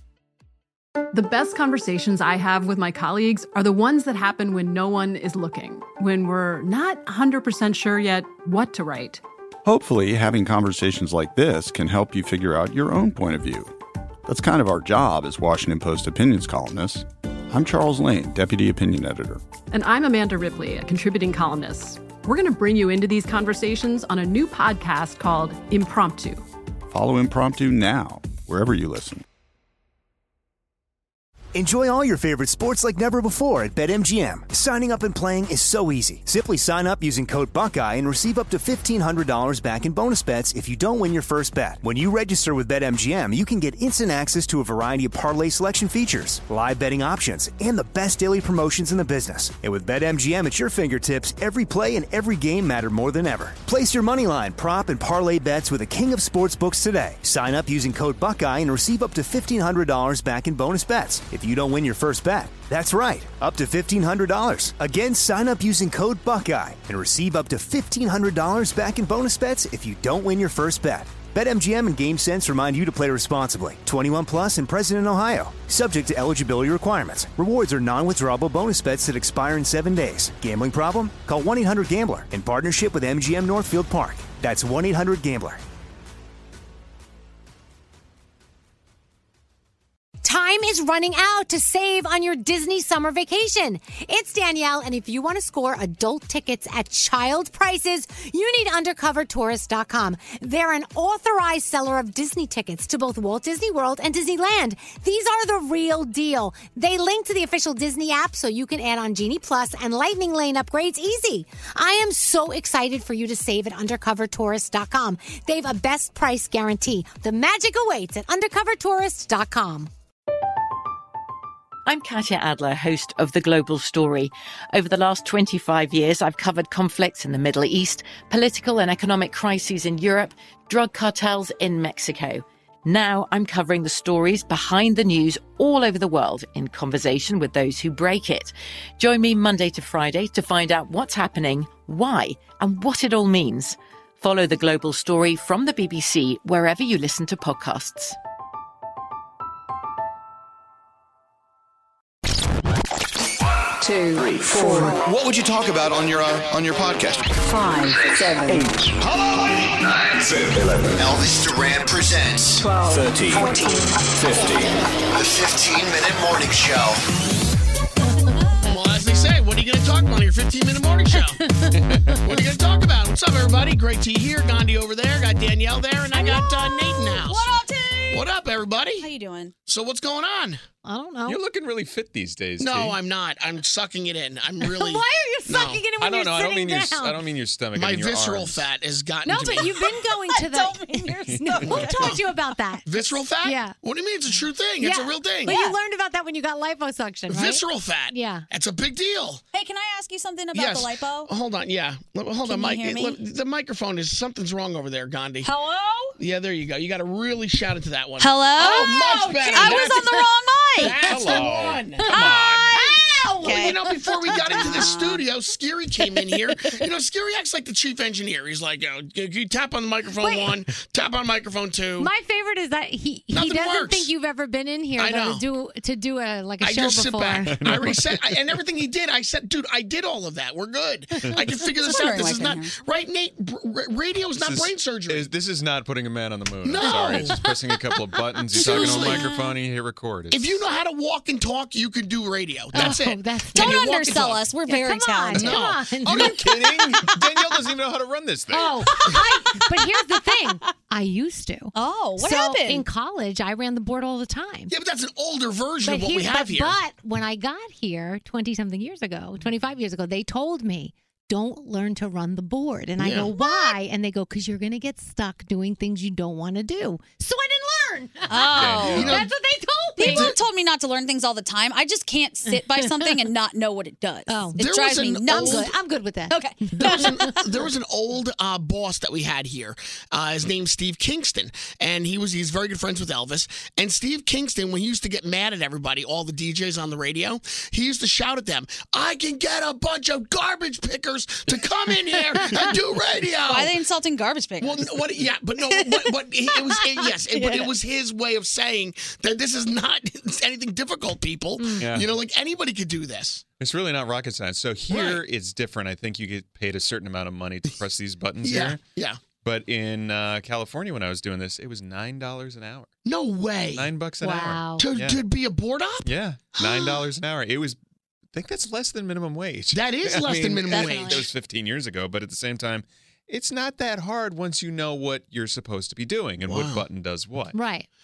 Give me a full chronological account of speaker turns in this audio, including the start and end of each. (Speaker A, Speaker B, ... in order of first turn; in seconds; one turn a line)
Speaker A: 1.1-9.2
Speaker B: 9.7-13.7
Speaker B: 14.3-17.0
Speaker B: 17.5-19.4
Speaker A: 19.7-26.4
Speaker B: 26.9-29.2
Speaker C: 31.6-85.6
Speaker D: 90.2-119.9
Speaker E: 121.9-123.5
Speaker E: 124.9-126.2
Speaker E: 127.2-130.3
Speaker E: 131.8-132.1
Speaker E: 132.9-133.7
Speaker E: 134.5-135.3
Speaker E: 135.9-137.8
Speaker E: 139.1-139.6
Speaker E: 141.4-143.7
Speaker E: 145.7-147.3
Speaker F: 153.8-155.1
Speaker F: 157.5-158.7
Speaker G: 160.9-162.6
Speaker F: 162.6-163.9
Speaker G: 165.1-167.0
Speaker H: 168.6-171.5
Speaker I: 171.9-172.2
Speaker H: 172.2-177.5
Speaker J: 176.1-178.3
Speaker H: 178.1-179.1
Speaker J: 179.0-179.5
Speaker H: 179.7-180.6
Speaker D: 180.8-181.4
Speaker I: 181.3-183.0
Speaker H: 182.6-185.9
Speaker D: 184.6-187.2
Speaker I: 185.9-188.7
Speaker H: 187.7-189.9
Speaker D: 189.2-193.8
Speaker J: 189.5-192.2
Speaker I: 191.3-191.6
Speaker H: 191.6-192.2
Speaker H: 192.8-195.6
Speaker D: 194.8-198.5
Speaker J: 195.5-195.8
Speaker H: 197.3-199.4
Speaker J: 199.5-201.3
Speaker H: 200.5-205.5
Speaker J: 202.4-203.2
Speaker J: 205.4-206.2
Speaker H: 206.2-210.3
Speaker J: 208.2-211.3
Speaker D: 209.1-210.2
Speaker H: 210.8-212.1
Speaker I: 211.1-212.7
Speaker D: 212.1-214.0
Speaker J: 212.1-213.8
Speaker H: 212.7-222.1
Speaker J: 214.4-215.2
Speaker J: 216.1-216.5
Speaker D: 220.2-220.6
Speaker D: 222.0-227.9
Speaker H: 223.3-224.1
Speaker H: 225.0-225.5
Speaker H: 226.6-235.3
Speaker I: 227.5-228.2
Speaker J: 231.9-232.7
Speaker I: 234.3-240.7
Speaker H: 236.6-237.4
Speaker H: 238.5-239.3
Speaker J: 238.6-239.5
Speaker H: 240.3-244.4
Speaker D: 242.7-243.8
Speaker J: 243.5-245.6
Speaker D: 244.7-247.0
Speaker H: 245.3-246.4
Speaker I: 246.0-248.9
Speaker D: 248.5-254.7
Speaker J: 249.0-249.9
Speaker J: 251.7-252.9
Speaker H: 254.7-256.8
Speaker D: 255.8-270.3
Speaker H: 263.0-263.3
Speaker J: 268.3-269.2
Speaker I: 268.6-269.2
Speaker H: 268.6-269.3
Speaker J: 270.0-277.3
Speaker H: 270.0-270.4
Speaker D: 272.5-273.2
Speaker D: 274.3-274.6
Speaker H: 274.6-275.7
Speaker D: 275.3-277.4
Speaker H: 276.8-293.8
Speaker J: 293.4-297.8
Speaker H: 294.6-303.4
Speaker D: 301.6-301.8
Speaker I: 301.8-302.2
Speaker I: 303.6-308.8
Speaker H: 304.9-305.2
Speaker H: 308.4-309.2
Speaker I: 309.4-312.9
Speaker H: 313.1-313.9
Speaker I: 313.7-315.3
Speaker D: 314.2-314.9
Speaker H: 314.7-317.1
Speaker I: 316.0-317.8
Speaker I: 318.3-327.6
Speaker H: 319.7-321.3
Speaker J: 320.7-321.2
Speaker H: 326.5-326.9
Speaker D: 327.5-327.9